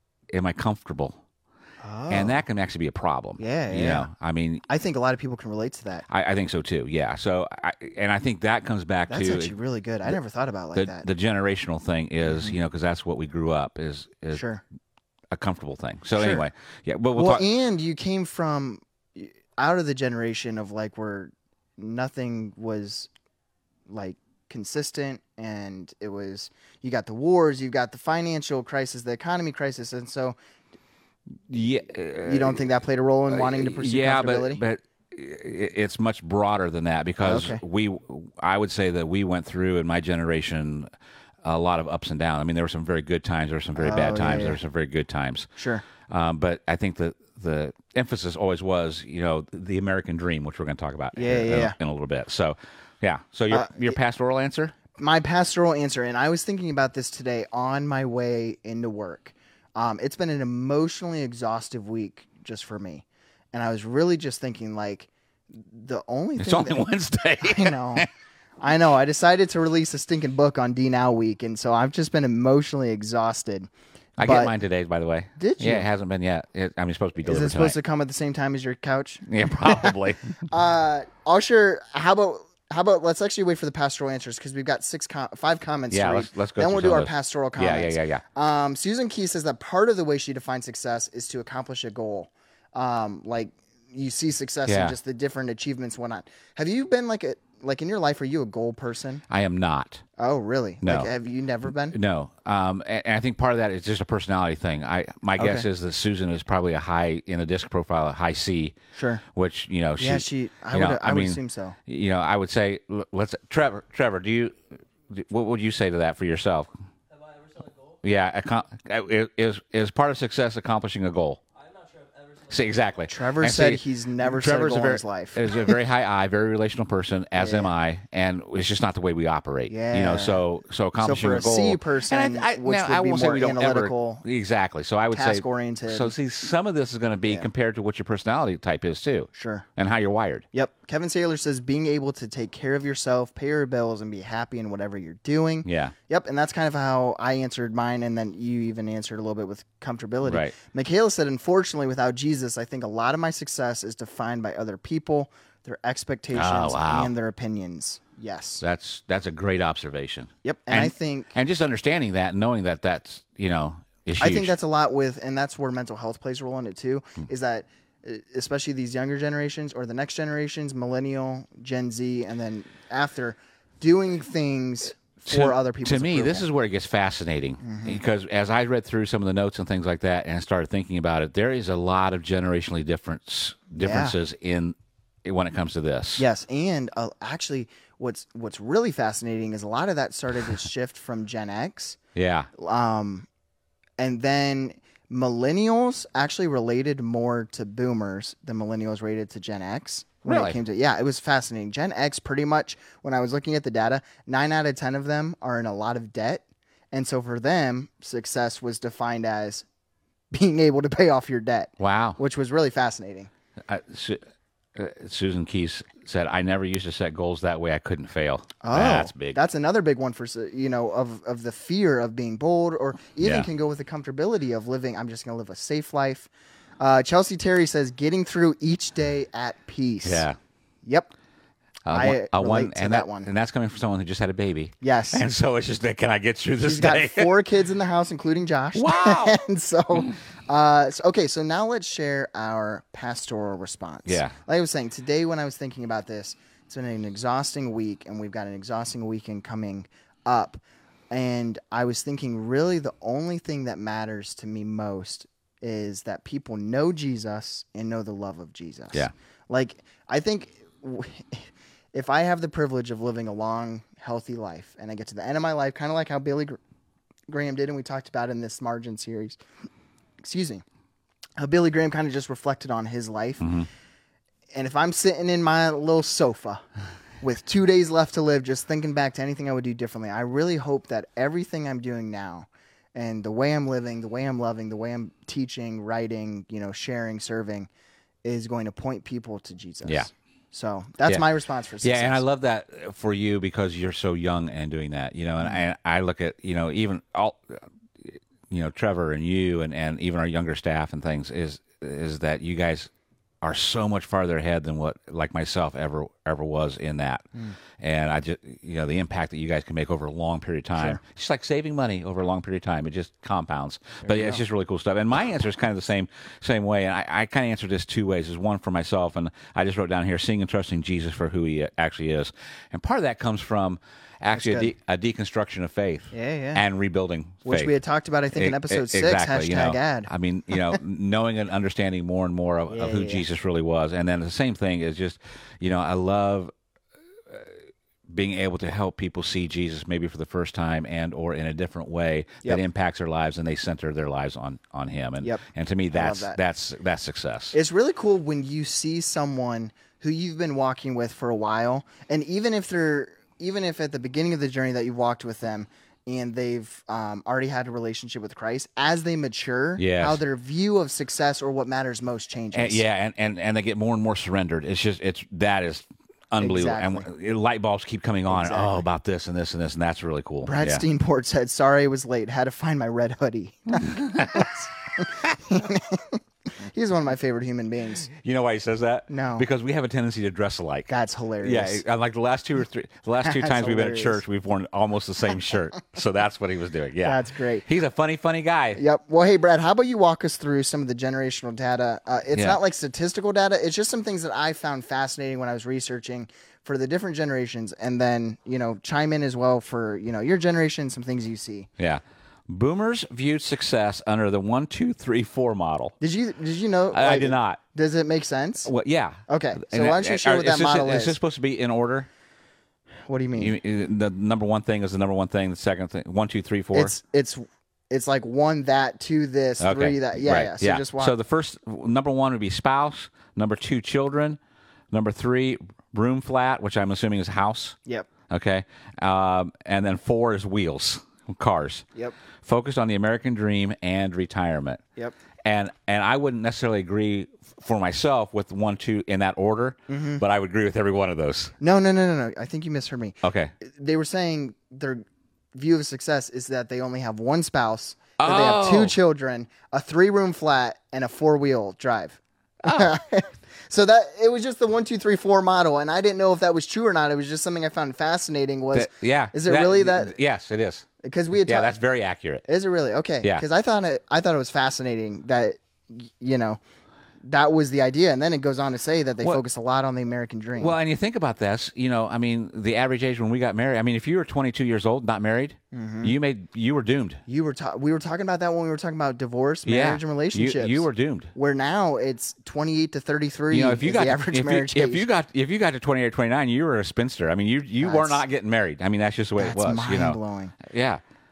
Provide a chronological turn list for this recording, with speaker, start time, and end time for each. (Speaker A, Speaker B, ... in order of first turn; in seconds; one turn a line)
Speaker A: 0.3-1.2
Speaker B: 1.8-2.4
Speaker A: 2.1-4.6
Speaker B: 3.4-4.1
Speaker B: 4.7-6.0
Speaker A: 6.1-9.5
Speaker B: 9.1-11.1
Speaker A: 10.7-14.4
Speaker B: 12.2-12.5
Speaker B: 14.3-14.6
Speaker A: 15.3-17.4
Speaker B: 16.2-16.4
Speaker B: 17.1-23.1
Speaker B: 23.9-30.4
Speaker A: 31.5-32.6
Speaker B: 32.2-34.6
Speaker A: 33.3-40.9
Speaker B: 37.2-37.6
Speaker A: 41.4-45.5
Speaker B: 43.8-44.6
Speaker B: 45.6-45.8
Speaker A: 46.1-54.7
Speaker B: 51.1-51.7
Speaker B: 53.5-54.0
Speaker B: 54.9-66.8
Speaker A: 66.4-68.1
Speaker B: 67.4-68.1
Speaker B: 68.6-73.7
Speaker A: 74.2-77.8
Speaker B: 74.2-74.5
Speaker B: 75.4-75.9
Speaker B: 77.2-99.2
Speaker A: 79.2-80.4
Speaker A: 85.9-88.2
Speaker A: 94.7-95.0
Speaker A: 99.3-100.0
Speaker B: 100.2-102.0
Speaker A: 100.8-101.1
Speaker A: 101.9-108.8
Speaker B: 105.3-105.6
Speaker B: 108.9-109.2
Speaker A: 109.3-114.5
Speaker B: 110.0-111.8
Speaker A: 115.1-116.7
Speaker C: 117.1-118.0
Speaker A: 118.0-121.4
Speaker C: 121.5-122.9
Speaker A: 122.5-140.4
Speaker B: 123.1-125.8
Speaker B: 127.4-127.7
Speaker B: 129.7-130.4
Speaker B: 131.0-134.2
Speaker B: 135.1-136.1
Speaker B: 139.3-139.7
Speaker B: 140.5-158.6
Speaker A: 145.6-145.9
Speaker A: 150.2-150.5
Speaker A: 156.3-157.1
Speaker A: 158.6-164.5
Speaker B: 160.4-161.3
Speaker B: 164.2-176.4
Speaker A: 175.2-186.2
Speaker B: 177.6-178.0
Speaker B: 183.8-184.1
Speaker B: 186.2-192.0
Speaker A: 192.1-192.5
Speaker B: 192.6-193.3
Speaker B: 194.0-209.7
Speaker A: 200.2-200.6
Speaker B: 210.3-213.3
Speaker A: 211.8-212.2
Speaker A: 213.7-214.2
Speaker A: 214.8-219.4
Speaker B: 218.6-230.2
Speaker A: 223.2-223.5
Speaker A: 230.0-230.4
Speaker B: 230.8-231.1
Speaker A: 231.8-237.3
Speaker B: 231.9-233.3
Speaker B: 234.8-235.2
Speaker B: 236.6-266.6
Speaker A: 238.7-239.4
Speaker A: 244.1-244.3
Speaker B: 267.3-269.4
Speaker B: 270.2-270.6
Speaker B: 271.4-273.4
Speaker A: 273.4-273.7
Speaker B: 274.5-276.6
Speaker B: 277.2-287.7
Speaker B: 288.2-292.2
Speaker A: 291.8-302.9
Speaker A: 303.4-307.2
Speaker A: 307.8-327.7
Speaker B: 314.0-314.4
Speaker B: 324.3-324.7
Speaker B: 326.1-326.6
Speaker B: 327.4-330.8
Speaker A: 328.3-336.5
Speaker B: 332.7-333.2
Speaker A: 338.1-347.6
Speaker B: 345.9-346.4
Speaker B: 347.5-362.8
Speaker A: 359.8-360.2
Speaker A: 362.5-370.8
Speaker B: 366.4-367.1
Speaker B: 368.3-368.8
Speaker B: 370.4-378.1
Speaker A: 373.8-374.5
Speaker A: 378.1-380.9
Speaker B: 379.1-379.4
Speaker B: 380.9-381.8
Speaker A: 381.4-388.8
Speaker B: 383.2-384.2
Speaker B: 387.0-387.6
Speaker B: 388.8-401.7
Speaker A: 401.8-405.9
Speaker B: 406.0-408.7
Speaker A: 406.9-407.6
Speaker A: 408.6-412.1
Speaker B: 409.3-411.2
Speaker B: 413.1-413.5
Speaker A: 413.4-416.9
Speaker B: 416.7-421.1
Speaker A: 419.6-424.4
Speaker A: 424.9-427.8
Speaker A: 428.3-431.9
Speaker A: 432.4-434.8
Speaker A: 435.4-441.5
Speaker B: 439.9-440.2
Speaker B: 441.6-460.1
Speaker A: 443.2-443.5
Speaker A: 448.2-448.9
Speaker A: 452.6-452.9
Speaker A: 458.7-460.9
Speaker B: 461.0-461.8
Speaker A: 461.4-462.4
Speaker B: 462.5-466.6
Speaker B: 467.2-470.7
Speaker A: 470.6-477.2
Speaker B: 475.7-476.1
Speaker B: 477.3-485.1
Speaker A: 479.6-481.3
Speaker A: 483.5-491.0
Speaker B: 487.8-488.2
Speaker B: 489.4-490.5